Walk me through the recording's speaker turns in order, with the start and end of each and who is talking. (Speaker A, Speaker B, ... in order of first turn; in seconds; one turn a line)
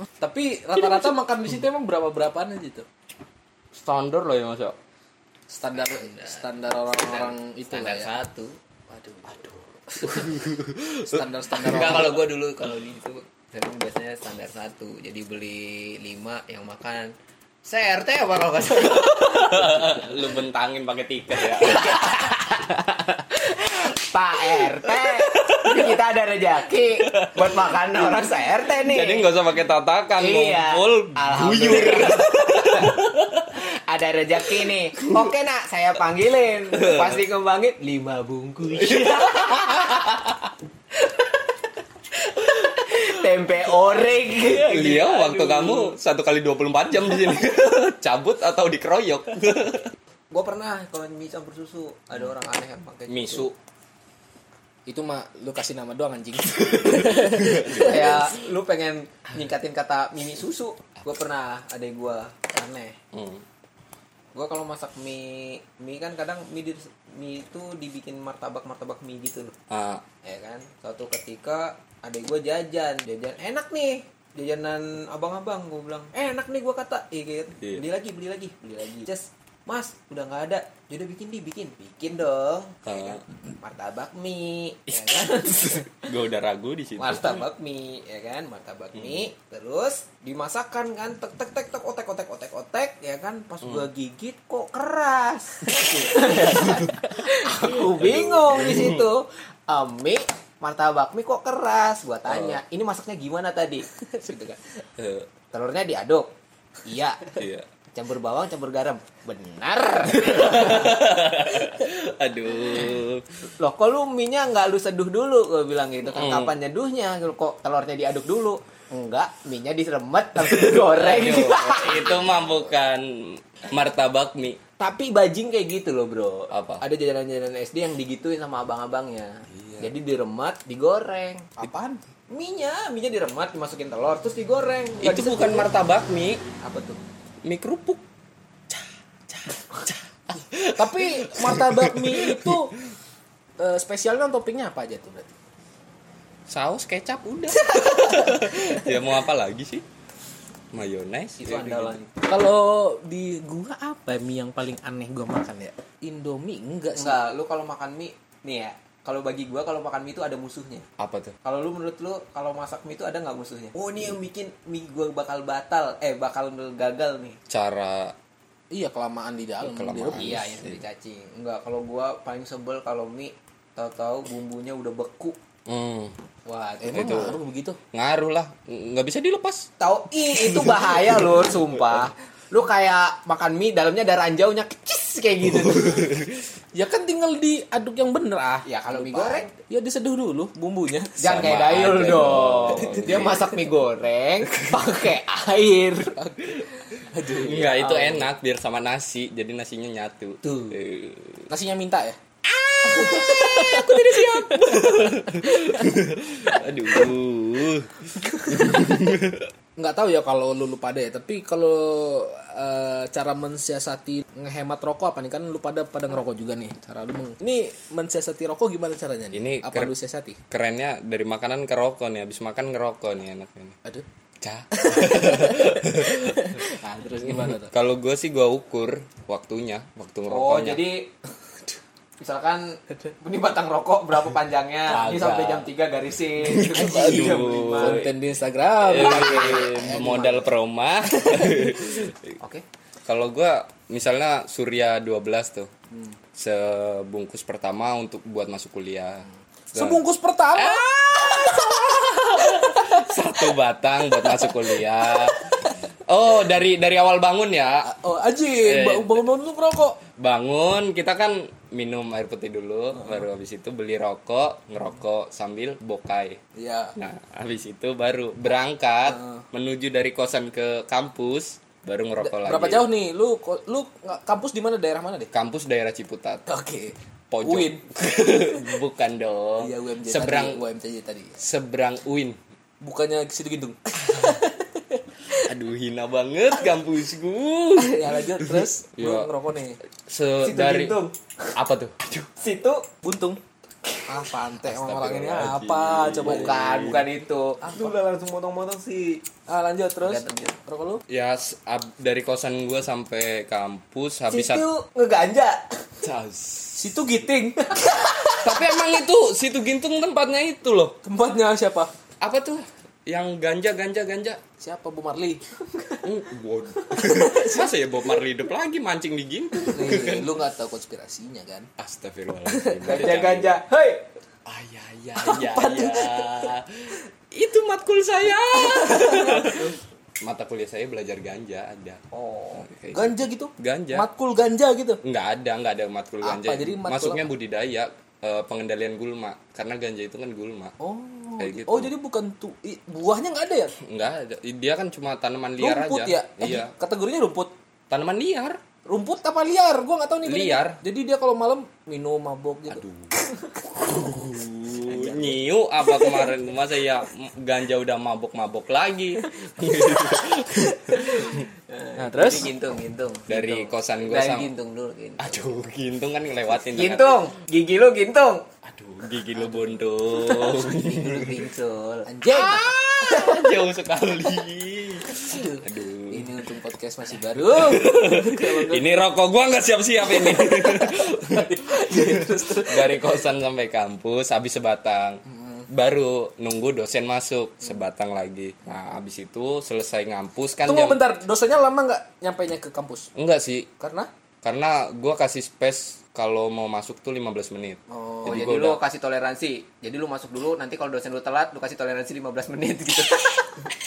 Speaker A: 0.2-2.9
Speaker B: 0.8-1.1
Speaker B: 3.7-4.8
Speaker A: 5.5-8.1
Speaker C: 6.8-8.6
Speaker A: 8.9-10.4
Speaker B: 9.4-12.2
Speaker A: 11.0-12.1
Speaker C: 11.6-17.1
Speaker C: 17.6-20.1
Speaker B: 18.8-22.2
Speaker C: 21.6-29.3
Speaker B: 24.9-25.7
Speaker B: 27.1-27.4
Speaker B: 28.8-33.5
Speaker C: 30.2-33.0
Speaker C: 33.5-40.3
Speaker B: 35.0-35.3
Speaker B: 36.7-37.2
Speaker B: 38.8-40.0
Speaker C: 41.0-41.3
Speaker C: 42.2-45.9
Speaker B: 44.4-49.9
Speaker C: 50.3-53.5
Speaker B: 53.1-53.5
Speaker A: 54.9-58.1
Speaker B: 56.7-58.3
Speaker C: 57.8-63.0
Speaker B: 63.1-63.4
Speaker C: 64.3-69.5
Speaker B: 69.7-70.0
Speaker C: 70.2-86.1
Speaker B: 82.8-83.2
Speaker B: 84.9-87.4
Speaker C: 87.0-104.6
Speaker B: 89.0-89.2
Speaker B: 93.6-93.9
Speaker A: 95.7-96.5
Speaker B: 96.4-96.9
Speaker B: 97.5-99.0
Speaker B: 102.3-102.6
Speaker B: 105.0-105.3
Speaker C: 105.5-106.3
Speaker C: 106.8-107.4
Speaker B: 107.4-107.7
Speaker C: 107.9-111.0
Speaker B: 110.2-113.2
Speaker C: 113.5-122.4
Speaker B: 116.1-116.5
Speaker B: 120.4-124.6
Speaker C: 124.8-131.5
Speaker B: 126.5-126.8
Speaker B: 129.5-129.9
Speaker A: 131.6-132.0
Speaker C: 132.3-135.7
Speaker B: 135.0-136.4
Speaker C: 136.6-137.0
Speaker B: 137.4-138.0
Speaker B: 138.7-142.7
Speaker A: 140.7-142.8
Speaker A: 143.6-145.3
Speaker B: 146.5-149.8
Speaker A: 147.6-148.5
Speaker B: 150.7-152.0
Speaker C: 151.4-152.2
Speaker A: 152.3-157.2
Speaker C: 156.9-160.8
Speaker B: 161.0-161.3
Speaker C: 161.4-167.4
Speaker B: 167.5-168.1
Speaker A: 168.7-170.5
Speaker B: 169.6-170.8
Speaker C: 170.1-175.4
Speaker B: 175.7-176.2
Speaker C: 176.4-177.3
Speaker A: 176.8-177.8
Speaker B: 176.9-177.4
Speaker B: 177.9-179.7
Speaker C: 179.8-186.2
Speaker B: 180.4-182.0
Speaker B: 185.7-186.2
Speaker A: 186.7-191.3
Speaker C: 188.6-189.5
Speaker C: 191.2-196.2
Speaker B: 191.2-193.5
Speaker A: 192.9-193.3
Speaker A: 196.2-197.8
Speaker B: 197.4-201.5
Speaker C: 197.5-198.2
Speaker C: 200.4-200.8
Speaker A: 201.5-202.2
Speaker B: 202.7-209.5
Speaker A: 202.9-205.8
Speaker A: 208.2-209.1
Speaker A: 209.8-220.4
Speaker B: 219.3-219.9
Speaker B: 220.5-223.8
Speaker B: 224.4-226.6
Speaker A: 224.7-227.7
Speaker B: 227.2-230.8
Speaker C: 230.3-231.1
Speaker C: 232.2-238.1
Speaker B: 234.9-235.7
Speaker B: 236.4-238.1
Speaker A: 236.7-240.5
Speaker B: 238.8-242.4
Speaker C: 239.0-239.8
Speaker A: 241.1-242.0
Speaker B: 243.1-245.7
Speaker A: 245.9-246.2
Speaker B: 246.3-250.0
Speaker A: 249.7-253.5
Speaker B: 250.5-257.9
Speaker A: 254.1-255.8
Speaker A: 257.8-260.0
Speaker B: 258.6-259.2
Speaker B: 260.1-266.4
Speaker A: 266.6-266.9
Speaker B: 266.9-272.9
Speaker A: 269.1-269.4
Speaker A: 272.2-275.3
Speaker B: 275.3-276.4
Speaker A: 276.5-278.6
Speaker B: 277.3-280.6
Speaker A: 279.6-281.4
Speaker B: 281.4-282.4
Speaker A: 282.8-285.5
Speaker B: 285.4-289.3
Speaker A: 287.8-289.8
Speaker B: 290.1-291.0
Speaker C: 290.4-291.1
Speaker B: 291.6-292.3
Speaker C: 292.4-292.8
Speaker A: 293.0-293.4
Speaker A: 294.1-296.6
Speaker B: 294.6-297.1
Speaker C: 296.2-299.2
Speaker A: 297.6-297.9
Speaker A: 299.5-301.0
Speaker C: 300.0-300.6
Speaker B: 301.1-304.6
Speaker C: 304.3-305.8
Speaker B: 306.0-307.0
Speaker A: 306.8-308.5
Speaker B: 308.4-311.0
Speaker A: 311.0-311.9
Speaker B: 312.2-314.4
Speaker A: 314.6-315.4
Speaker B: 316.0-320.3
Speaker A: 317.0-317.7
Speaker A: 319.6-321.7
Speaker C: 319.8-320.1
Speaker B: 321.8-323.6
Speaker A: 322.5-322.9
Speaker C: 322.8-324.1
Speaker B: 324.4-332.0
Speaker A: 325.1-326.5
Speaker A: 328.6-329.7
Speaker C: 332.1-332.6
Speaker B: 332.5-334.1
Speaker A: 332.9-335.0
Speaker B: 335.0-340.7
Speaker A: 336.2-337.3
Speaker A: 340.8-343.7
Speaker B: 341.4-341.9
Speaker B: 343.8-346.7
Speaker A: 345.6-347.5
Speaker B: 347.9-348.6
Speaker A: 348.9-352.8
Speaker B: 350.2-350.8
Speaker B: 352.7-361.5
Speaker A: 354.7-356.3
Speaker C: 361.3-365.6
Speaker A: 362.0-362.5
Speaker B: 363.3-364.5
Speaker B: 365.2-367.3
Speaker C: 366.7-368.4
Speaker B: 368.6-371.4
Speaker C: 370.6-372.1
Speaker A: 372.1-373.4
Speaker B: 372.3-376.4
Speaker A: 375.1-378.9
Speaker B: 377.4-391.0
Speaker A: 380.0-383.2
Speaker A: 385.3-385.7
Speaker A: 390.6-393.1
Speaker B: 393.1-393.7
Speaker A: 393.8-394.1
Speaker B: 394.4-398.8
Speaker A: 397.9-398.6
Speaker C: 398.2-403.7